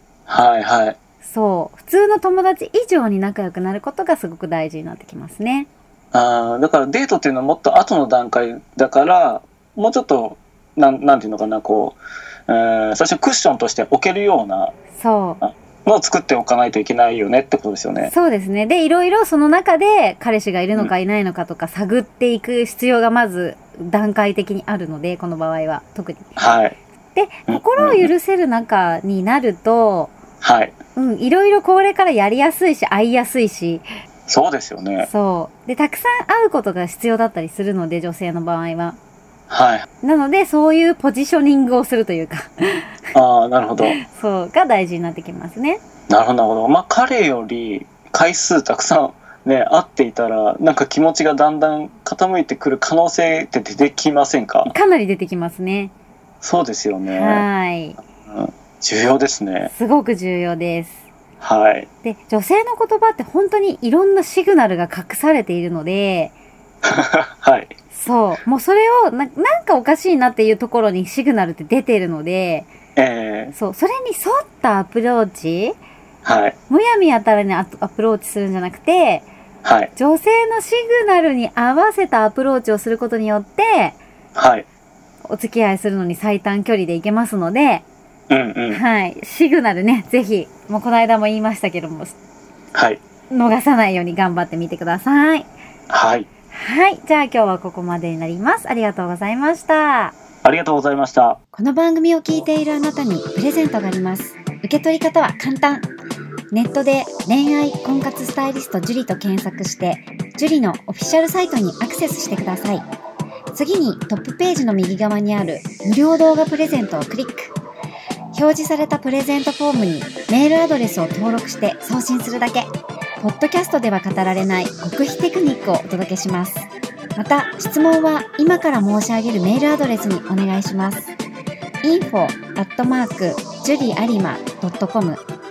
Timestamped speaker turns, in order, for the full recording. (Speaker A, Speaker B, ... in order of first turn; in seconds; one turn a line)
Speaker A: 0.3-1.0
Speaker B: 1.2-5.7
Speaker A: 6.1-14.7
Speaker B: 15.0-15.4
Speaker A: 15.4-18.1
Speaker B: 18.0-26.3
Speaker A: 26.4-26.8
Speaker B: 27.1-30.1
Speaker A: 27.5-28.1
Speaker A: 30.4-30.7
Speaker B: 30.9-33.8
Speaker A: 34.3-35.1
Speaker B: 35.0-39.0
Speaker A: 39.5-39.9
Speaker B: 40.0-42.9
Speaker A: 43.1-44.0
Speaker B: 43.8-45.8
Speaker A: 46.1-54.7
Speaker B: 54.7-55.9
Speaker A: 56.4-57.5
Speaker B: 57.0-58.0
Speaker A: 58.2-59.7
Speaker B: 59.7-61.0
Speaker A: 61.4-61.9
Speaker B: 62.0-66.3
Speaker A: 66.8-67.7
Speaker B: 67.9-72.7
Speaker A: 73.0-73.5
Speaker B: 73.5-75.8
Speaker A: 76.2-76.5
Speaker B: 76.7-79.2
Speaker A: 79.6-79.9
Speaker B: 80.0-84.0
Speaker A: 84.3-84.7
Speaker B: 85.3-87.8
Speaker A: 88.3-88.8
Speaker B: 88.7-92.1
Speaker A: 92.7-93.0
Speaker B: 93.3-95.5
Speaker A: 95.9-96.3
Speaker B: 96.5-100.2
Speaker A: 100.4-101.4
Speaker C: 101.5-105.9
Speaker C: 106.5-112.8
Speaker C: 113.5-117.5
Speaker C: 118.3-122.7
Speaker C: 123.2-131.1
Speaker C: 131.8-135.2